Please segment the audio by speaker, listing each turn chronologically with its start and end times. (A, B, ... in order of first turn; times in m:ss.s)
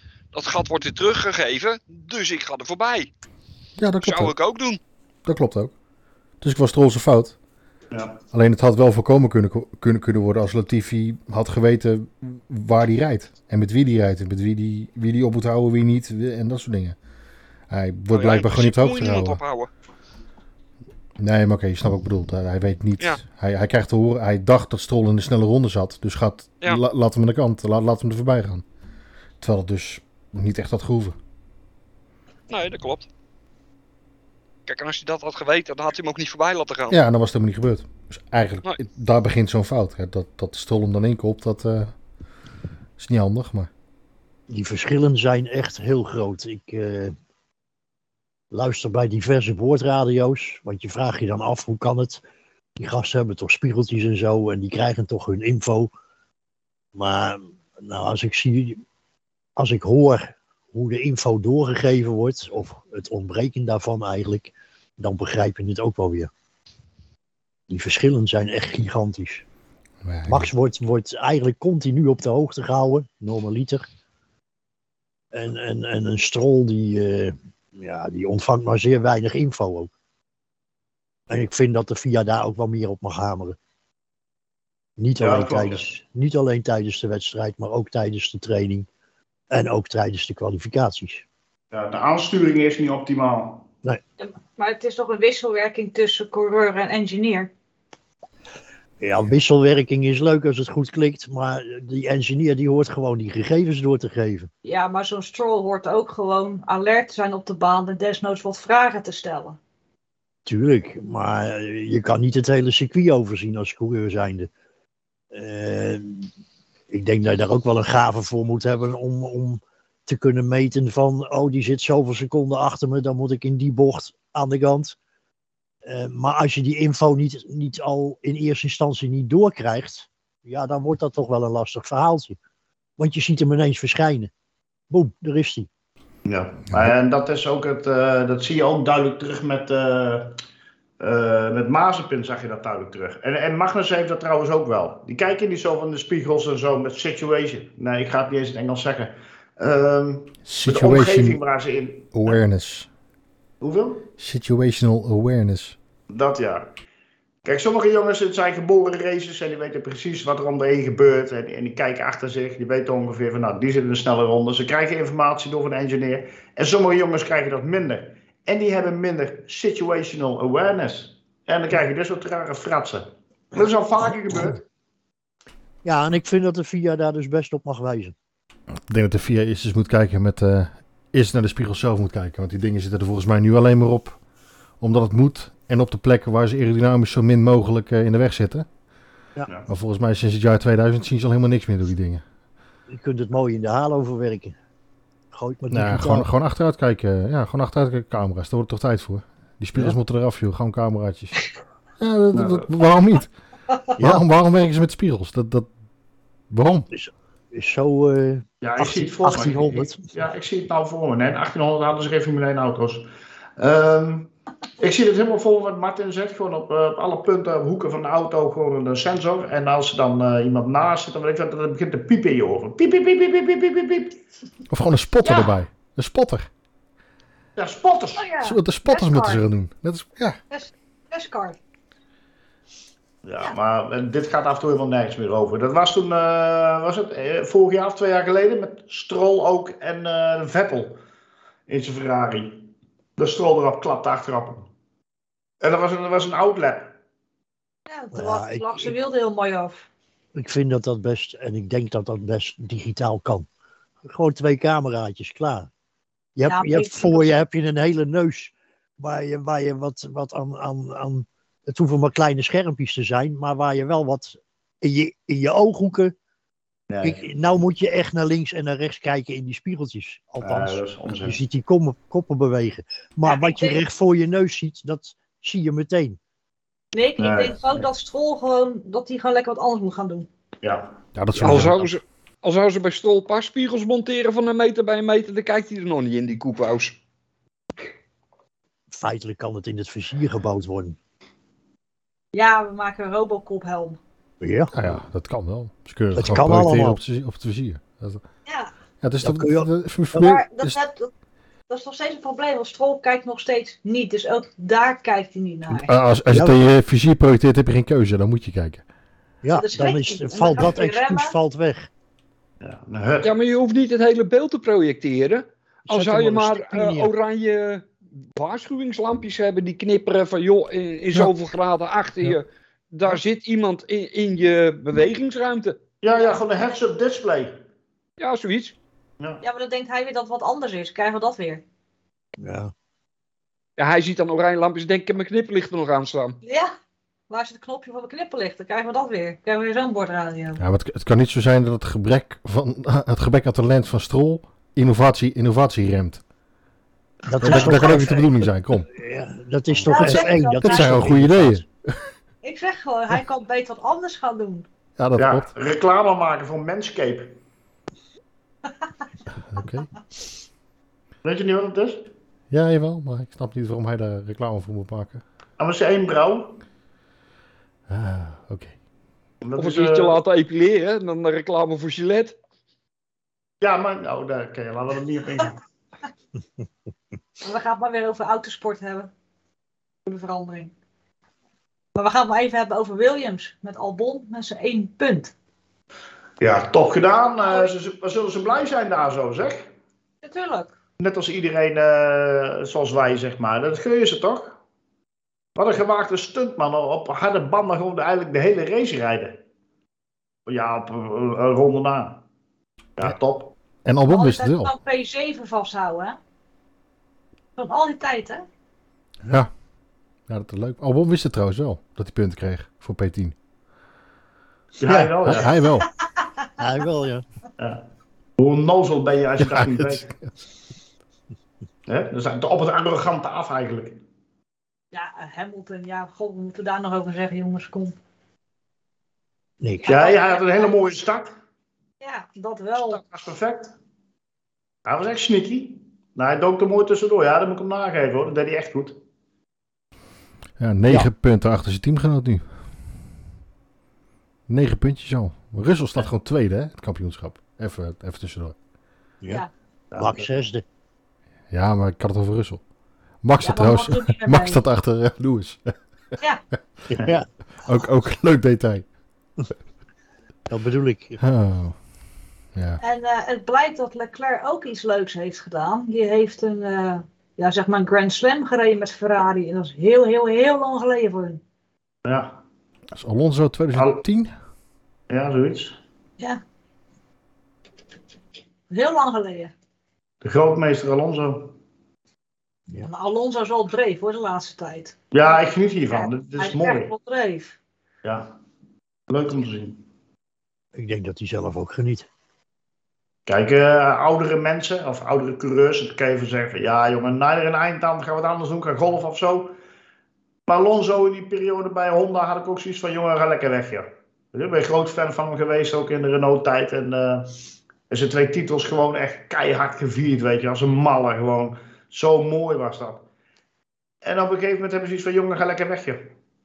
0:00.3-0:03.1 A
0:03.8-0:04.3 B
0:04.0-0:04.8 A
0:05.2-0:05.7 B
0:06.4-0:07.4 B
0:07.9-0:08.2 C
0:08.3-0:17.0 B
0:17.7-0:19.4 B
0:18.1-0:19.7 A
0:21.2-0:28.6 B
0:29.4-0:31.2 B
0:32.5-0:33.1 A
0:34.7-0:37.0 A
0:36.9-0:41.9 B
0:43.0-0:43.7 B
0:44.5-0:47.1 D
0:48.5-0:52.2 D
0:52.8-0:55.9 D
0:57.0-0:58.8 D
0:59.6-1:06.3 D
1:07.7-1:09.4 D
1:10.0-1:10.5 B
1:10.3-1:13.8 D
1:15.3-1:19.9 D
1:21.3-1:23.6 D
1:25.0-1:28.9 D
1:25.2-1:25.8 C
1:29.5-1:31.2 D
1:31.7-1:33.7 C
1:34.2-1:37.5 E
1:39.0-1:44.5 D
1:44.6-1:49.6 E
1:50.5-1:54.5 D
1:55.3-1:56.3 D
1:56.9-2:05.0 D
2:05.8-2:12.4 D
2:13.0-2:14.3 D
2:14.9-2:15.7 D
2:16.2-2:20.4 C
2:21.0-2:32.4 C
2:30.4-2:31.4 B
2:32.1-2:32.9 B
2:33.6-2:34.1 C
2:34.2-2:35.8 B
2:36.1-2:36.7 C
2:37.4-2:54.6 C
2:55.8-2:58.2 D
2:58.9-3:04.2 B
3:04.8-3:08.7 B
3:09.7-3:12.2 B
3:12.9-3:14.6 D
3:15.3-3:16.3 D
3:15.7-3:21.4 B
3:22.0-3:23.3 B
3:22.3-3:22.7 C
3:24.0-3:25.7 B
3:26.5-3:26.9 B
3:26.9-3:30.1 D
3:28.6-3:33.1 C
3:33.6-3:44.2 C
3:44.7-3:46.5 B
3:45.2-3:45.5 E
3:47.6-3:48.3 C
3:48.2-3:49.4 E
3:48.4-3:50.4 B
3:50.5-3:51.6 E
3:53.2-4:01.0 C
4:01.7-4:04.7 C
4:05.6-4:07.0 C
4:07.9-4:09.9 E
4:08.1-4:08.9 D
4:10.4-4:13.5 D
4:14.1-4:15.7 D
4:16.4-4:26.1 D
4:16.5-4:17.4 E
4:26.9-4:27.2 C
4:27.0-4:36.2 D
4:30.4-4:31.4 C
4:33.2-4:33.8 E
4:36.9-4:40.3 E
4:37.2-4:37.8 C
4:40.6-4:41.7 C
4:41.2-4:41.9 B
4:41.4-4:47.0 A
4:48.9-4:51.0 D
4:52.3-4:54.0 E
4:54.4-4:54.9 D
4:54.7-4:58.2 B
4:56.2-4:57.0 D
4:58.5-4:58.7 E
4:59.0-5:00.8 B
4:59.2-5:00.3 D
5:00.2-5:01.1 E
5:01.7-5:05.9 E
5:05.8-5:08.8 B
5:06.3-5:06.6 D
5:09.4-5:11.9 D
5:09.5-5:11.4 E
5:12.6-5:13.3 C
5:13.2-5:25.8 A
5:15.9-5:17.1 D
5:26.0-5:27.6 C
5:28.2-5:28.8 A
5:29.4-5:31.6 E
5:32.4-5:32.7 D
5:33.8-5:36.4 A
5:36.4-5:36.7 E
5:37.3-5:40.6 E
5:40.6-5:46.2 B
5:47.3-5:48.3 D
5:47.4-5:48.9 B
5:48.9-5:51.6 D
5:49.9-5:51.1 E
5:50.6-5:52.0 B
5:52.4-5:54.7 E
5:55.0-5:55.5 B
5:55.2-5:57.4 C
5:59.5-5:59.9 B
6:01.2-6:02.1 C
6:02.5-6:05.2 B
6:05.6-6:06.6 C
6:07.9-6:08.8 B
6:09.4-6:10.2 C
6:09.6-6:12.4 A
6:13.6-6:15.6 C
6:17.4-6:19.1 E
6:20.1-6:20.7 E
6:22.0-6:25.3 E
6:26.4-6:29.7 C
6:27.4-6:27.7 E
6:30.2-6:30.7 E
6:31.0-6:34.6 C
6:35.6-6:39.4 C
6:40.5-6:42.2 C
6:43.0-6:43.6 C
6:43.8-6:44.7 B
6:44.1-6:46.2 E
6:47.6-6:48.4 E
6:50.3-6:53.4 B
6:54.8-6:55.6 C
6:54.9-6:55.3 D
6:55.0-6:55.9 B
6:56.6-6:57.2 D
6:57.6-6:57.8 C
6:58.4-7:00.1 C
6:59.4-7:00.2 B
7:01.9-7:04.0 C
7:04.9-7:08.0 E
7:09.6-7:09.9 D
7:09.8-7:11.0 E
7:09.9-7:11.3 C
7:12.0-7:13.0 E
7:12.8-7:13.7 C
7:14.8-7:19.0 C
7:20.6-7:22.4 B
7:24.5-7:28.6 B
7:29.2-7:30.6 D
7:29.9-7:30.3 C
7:31.5-7:32.6 B
7:33.2-7:35.7 B
7:33.4-7:34.6 E
7:36.9-7:37.3 D
7:37.6-7:38.8 B
7:40.5-7:41.2 D
7:41.2-7:41.8 B
7:42.6-7:42.8 B
7:42.8-7:51.4 E
7:52.0-7:52.4 C
7:53.0-7:54.3 B
7:53.8-7:54.0 C
7:55.1-7:55.8 C
7:58.7-7:59.5 E
8:00.2-8:01.6 C
8:02.8-8:05.0 E
8:05.1-8:06.9 C
8:05.9-8:07.6 E
8:08.0-8:08.3 C
8:09.1-8:09.8 C
8:10.8-8:12.1 D
8:13.3-8:19.5 C
8:20.5-8:27.4 C
8:27.9-8:33.0 C
8:34.0-8:36.1 C